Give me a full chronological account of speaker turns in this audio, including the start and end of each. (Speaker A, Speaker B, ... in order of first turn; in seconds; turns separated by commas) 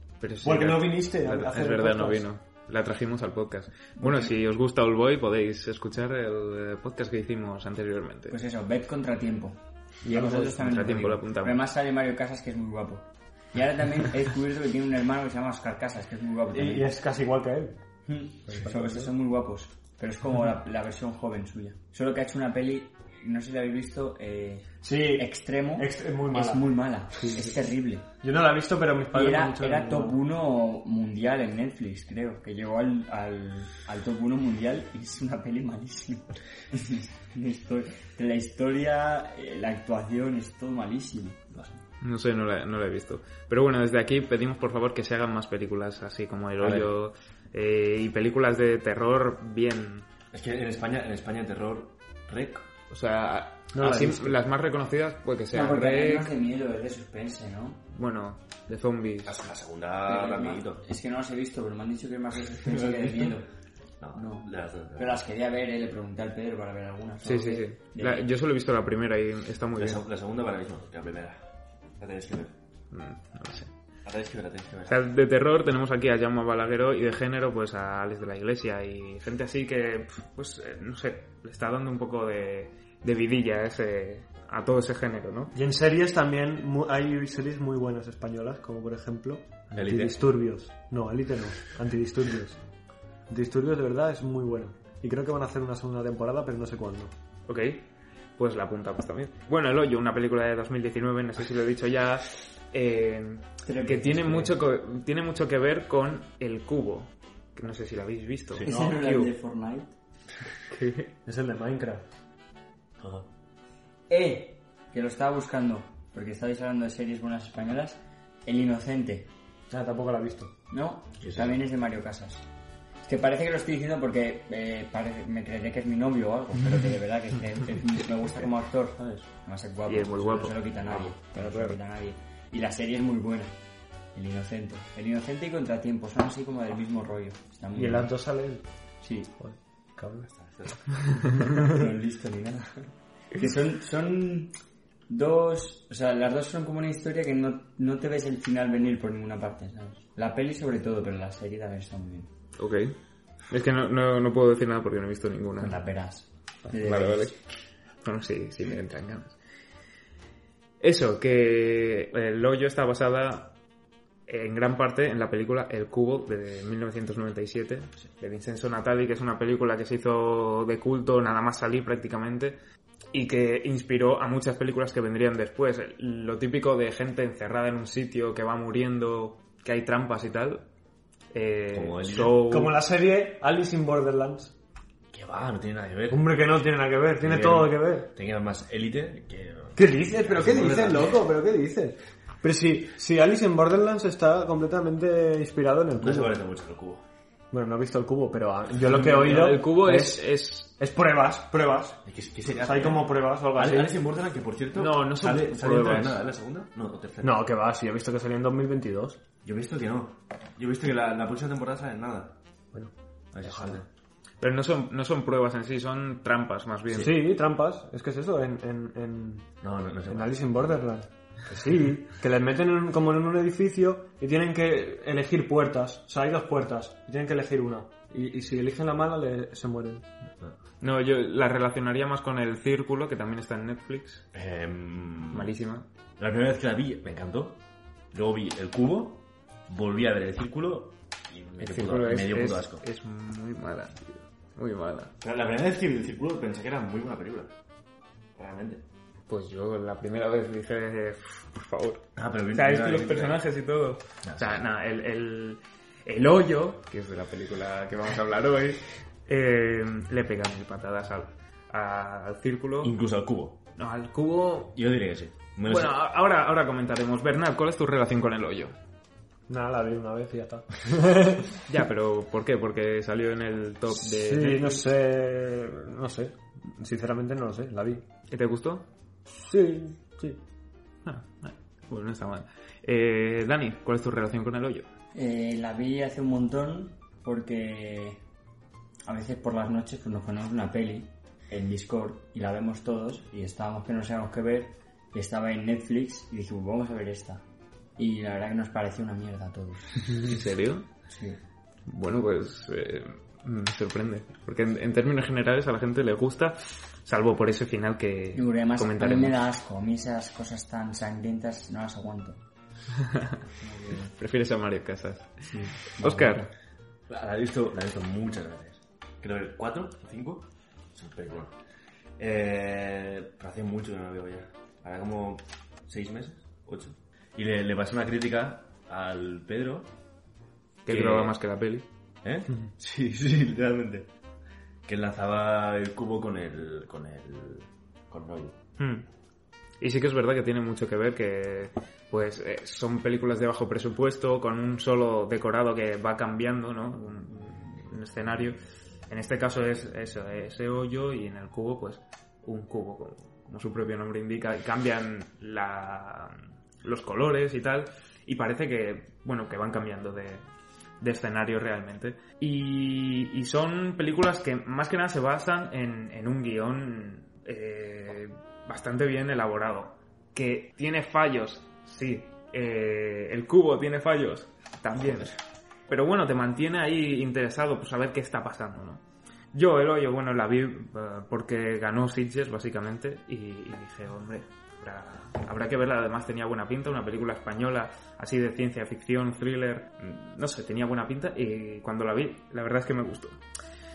Speaker A: 0.2-8.4, Speaker B: 0.4-2.2, Speaker C: 4.0-4.3, Speaker C: 8.3-16.9, Speaker A: 10.1-11.6, Speaker B: 16.5-17.8, Speaker C: 18.1-28.1, Speaker B: 18.5-19.1, Speaker B: 24.8-27.5, Speaker B: 28.2-30.2, Speaker C: 29.1-41.4, Speaker A: 42.0-50.0, Speaker D: 46.6-46.9, Speaker D: 50.3-52.7, Speaker A: 52.9-56.3, Speaker B: 53.7-54.4, Speaker C: 55.5-57.8, Speaker A: 57.9-59.4, Speaker D: 59.2-60.8, Speaker C: 60.1-63.5, Speaker D: 62.7-63.3, Speaker D: 64.0-65.2, Speaker C: 64.1-68.3, Speaker A: 67.2-70.0, Speaker D: 69.8-71.4, Speaker D: 72.0-72.5, Speaker A: 72.9-73.7, Speaker D: 74.0-75.0, Speaker A: 74.9-85.5, Speaker B: 85.5-92.6, Speaker D: 89.7-90.2, Speaker B: 93.3-97.1, Speaker A: 97.5-97.8, Speaker A: 98.4-109.3, Speaker C: 103.6-104.6, Speaker C: 108.6-109.9, Speaker B: 108.7-109.0, Speaker A: 110.7-111.1, Speaker B: 111.2-112.0, Speaker D: 113.0-113.3, Speaker C: 114.1-119.3, Speaker B: 119.7-120.5, Speaker C: 120.7-122.5, Speaker D: 121.2-121.6, Speaker C: 123.0-133.6, Speaker A: 129.9-130.6, Speaker A: 131.4-131.7, Speaker C: 134.1-138.1, Speaker B: 137.8-138.7, Speaker C: 139.0-139.3, Speaker B: 139.4-140.3, Speaker D: 140.2-141.2, Speaker C: 141.4-144.5, Speaker C: 145.1-152.3, Speaker A: 152.6-153.0, Speaker A: 153.5-155.8, Speaker C: 155.6-157.3, Speaker A: 156.7-157.4, Speaker A: 158.0-159.4, Speaker A: 160.8-163.6, Speaker A: 164.3-172.6, Speaker A: 173.1-180.7, Speaker A: 181.3-182.8, Speaker D: 181.7-182.4, Speaker B: 182.4-184.5, Speaker D: 185.1-186.4, Speaker B: 186.1-188.1, Speaker D: 187.2-191.2, Speaker B: 189.8-196.4, Speaker D: 196.0-197.0, Speaker B: 197.5-202.0, Speaker A: 199.0-200.7, Speaker D: 199.1-199.5, Speaker D: 202.1-207.4, Speaker B: 202.6-204.0, Speaker A: 204.7-206.2, Speaker B: 207.2-209.2, Speaker D: 209.4-212.4, Speaker B: 212.7-213.8, Speaker D: 213.3-213.9, Speaker A: 214.4-217.2, Speaker B: 216.9-219.5, Speaker D: 219.6-220.4, Speaker B: 220.1-230.1, Speaker A: 230.8-234.2, Speaker D: 234.3-235.5, Speaker A: 235.3-235.9, Speaker D: 236.2-237.6, Speaker D: 238.1-242.8, Speaker A: 241.6-245.1, Speaker D: 245.2-247.5, Speaker D: 248.4-248.8, Speaker A: 249.3-262.9, Speaker D: 252.2-253.4, Speaker D: 254.2-254.6, Speaker D: 262.8-263.6, Speaker A: 263.8-264.8, Speaker D: 264.8-265.9, Speaker A: 265.7-268.8, Speaker B: 269.5-271.6, Speaker A: 271.7-274.9, Speaker B: 273.9-278.0, Speaker A: 278.3-278.9, Speaker B: 279.4-280.4, Speaker A: 281.1-284.9, Speaker C: 285.1-288.2, Speaker C: 289.1-297.4, Speaker C: 298.0-300.3, Speaker A: 300.2-300.9, Speaker C: 301.1-301.4, Speaker A: 301.9-309.4, Speaker C: 308.4-312.4, Speaker A: 313.1-313.3, Speaker C: 313.6-314.1, Speaker A: 314.1-316.4, Speaker C: 315.4-316.5, Speaker D: 317.1-321.6, Speaker D: 322.2-329.9, Speaker A: 330.9-331.9, Speaker D: 330.9-331.3, Speaker D: 332.2-334.1, Speaker D: 334.9-338.6, Speaker A: 338.8-339.1, Speaker A: 339.8-348.6, Speaker A: 349.1-360.4, Speaker A: 361.0-375.4, Speaker D: 375.0-375.3, Speaker A: 375.9-379.0, Speaker A: 379.5-393.4